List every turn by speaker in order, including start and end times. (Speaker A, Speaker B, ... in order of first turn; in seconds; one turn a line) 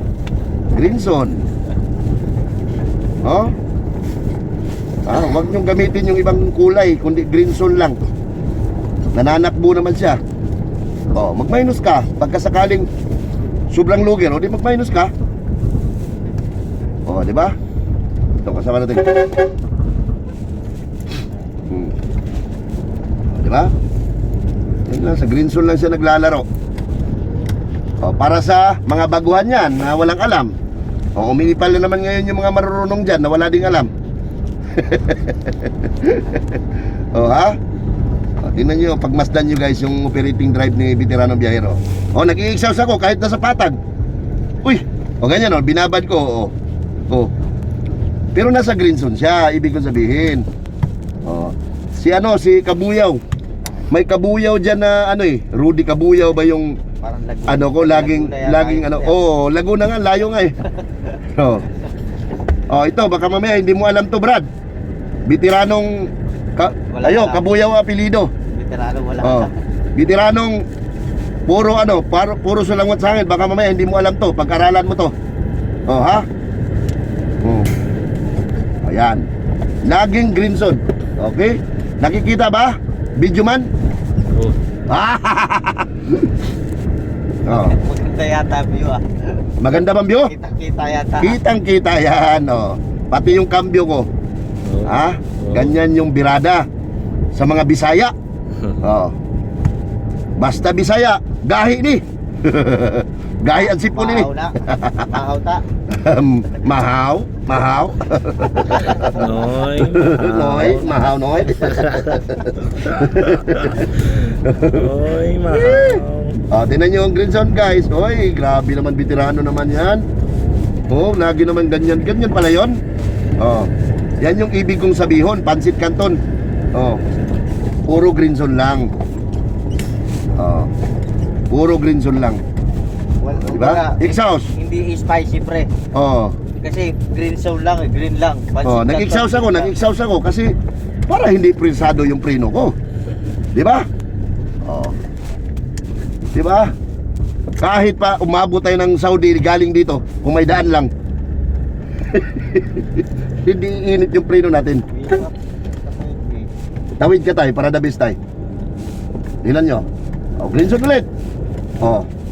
Speaker A: 0.7-1.5
Speaker A: 3.2-3.5
Speaker A: 5.0-8.0
Speaker A: 9.1-10.2
Speaker A: 11.1-12.9
Speaker A: 13.7-15.1
Speaker A: 17.1-17.6
Speaker A: 18.4-19.3
Speaker A: 21.7-21.9
Speaker A: 23.3-23.7
Speaker A: 24.9-26.4
Speaker A: 28.0-30.5
Speaker A: 31.1-33.9
Speaker A: 34.7-36.6
Speaker A: 37.1-37.6
Speaker A: 38.4-43.8
Speaker A: 44.6-46.5
Speaker A: 48.3-50.5
Speaker A: 51.2-53.2
Speaker A: 53.9-56.8
Speaker B: 57.0-59.1
Speaker A: 57.5-60.6
Speaker A: 61.2-61.6
Speaker A: 62.7-64.5
Speaker A: 65.2-68.3
Speaker B: 66.9-67.4
Speaker B: 68.5-69.6
Speaker A: 69.2-70.6
Speaker A: 71.5-75.1
Speaker A: 75.9-76.2
Speaker A: 77.4-77.7
Speaker A: 78.8-79.2
Speaker A: 79.8-83.7
Speaker A: 84.9-86.3
Speaker A: 87.5-87.8
Speaker B: 87.5-89.5
Speaker A: 89.6-90.3
Speaker B: 90.2-91.4
Speaker A: 91.2-94.1
Speaker C: 94.6-95.7
Speaker A: 94.8-96.7
Speaker A: 97.3-98.1
Speaker A: 98.8-99.1
Speaker A: 100.4-105.1
Speaker B: 103.5-105.6
Speaker A: 105.9-109.2
Speaker B: 108.8-109.2
Speaker C: 109.1-110.8
Speaker A: 109.8-114.9
Speaker C: 111.7-116.4
Speaker A: 115.5-120.0
Speaker A: 120.9-122.8
Speaker A: 123.4-126.2
Speaker A: 126.7-127.0
Speaker A: 127.9-128.9
Speaker A: 130.4-130.7
Speaker A: 131.5-132.4
Speaker B: 133.2-135.7
Speaker A: 133.4-134.5
Speaker A: 135.9-136.3
Speaker B: 136.6-139.8
Speaker A: 138.6-140.5
Speaker A: 141.1-142.7
Speaker A: 143.5-143.9
Speaker A: 144.6-144.9
Speaker A: 146.3-146.7
Speaker A: 147.6-150.9
Speaker A: 152.1-154.8
Speaker B: 154.9-156.5
Speaker A: 157.0-158.2
Speaker A: 159.4-159.8
Speaker A: 160.4-161.1
Speaker A: 161.8-162.1